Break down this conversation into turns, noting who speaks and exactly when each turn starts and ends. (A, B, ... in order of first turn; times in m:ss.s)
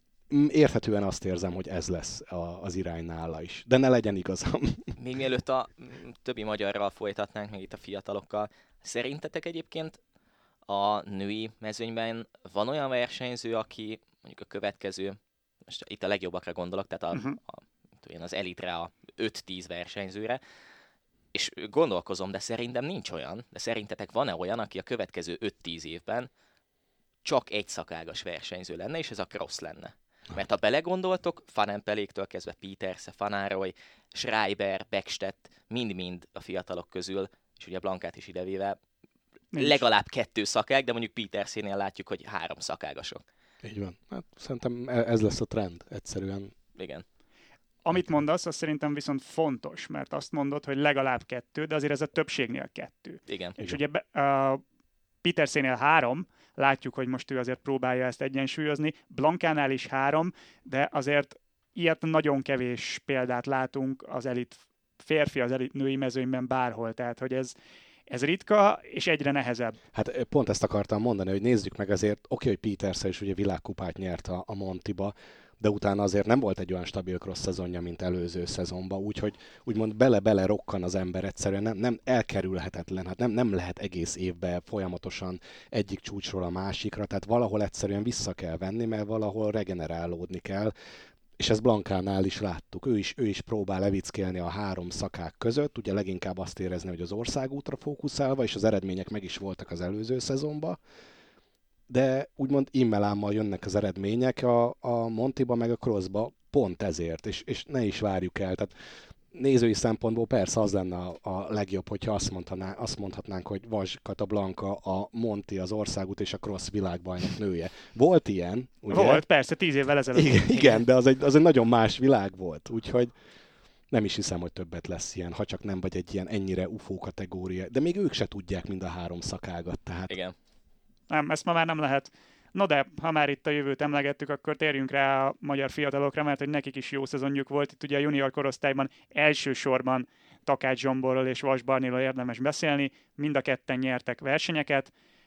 0:00.3-0:04.9 A
0:05.0-0:10.0 B
0:10.7-0:20.4 B
0:17.1-0:17.4 C
0:21.3-0:26.3 B
0:27.2-0:38.8 B
0:39.5-0:39.8 C
0:39.5-0:43.2 B
0:43.6-0:46.5 A
0:46.8-0:47.0 B
0:47.8-0:54.6 C
0:53.3-0:53.6 B
0:55.2-1:07.5 C
1:08.1-1:09.8 C
1:09.9-1:30.7 A
1:31.4-1:40.8 A
1:41.9-1:48.7 A
1:49.3-1:59.2 A
1:58.9-2:00.8 C
2:00.1-2:03.1 A
2:03.9-2:10.1 A
2:10.1-2:10.3 B
2:11.1-2:24.9 C